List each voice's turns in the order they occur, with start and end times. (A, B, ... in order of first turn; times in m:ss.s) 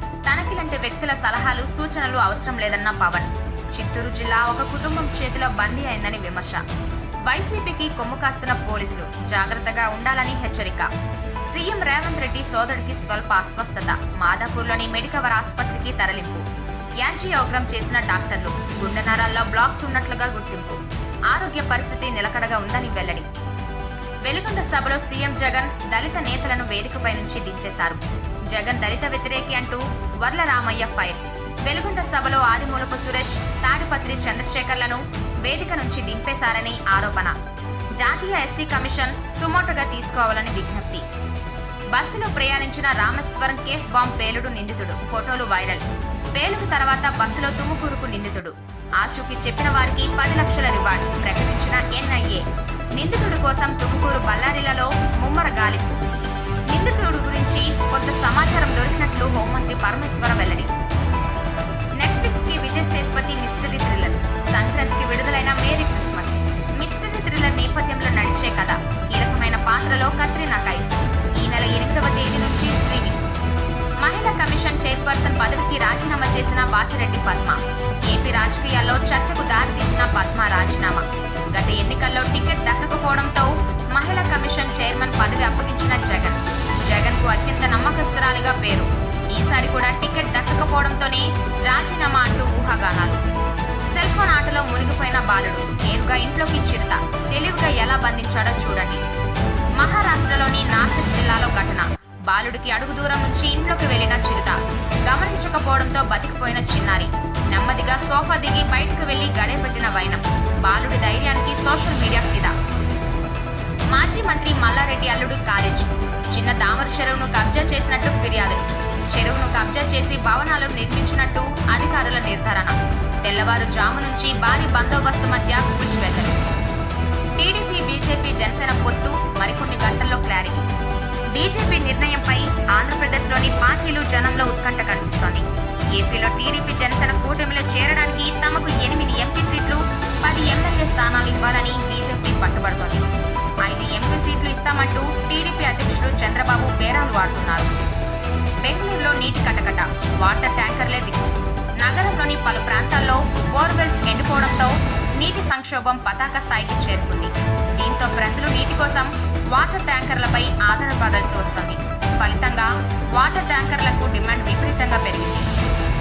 0:00.3-0:06.6 A
0:07.3-0:10.9 A
0:11.5-0:16.4 A
0:17.0-0:20.8 A
0:21.3-0:23.3 A
0:24.2-0:28.0 A
0:28.5-0:37.3 A
0:38.0-0:41.0 A
0:41.9-0:52.4 A
0:53.0-0:56.0 A
0:56.7-1:00.7 A
1:02.0-1:13.2 A
1:14.0-1:33.2 A
1:33.9-1:39.0 A
1:39.8-1:52.5 A
1:53.9-2:06.4 A
2:07.4-2:10.6 A
2:11.3-2:23.0 A
2:23.6-2:27.7 A
2:28.6-2:45.4 A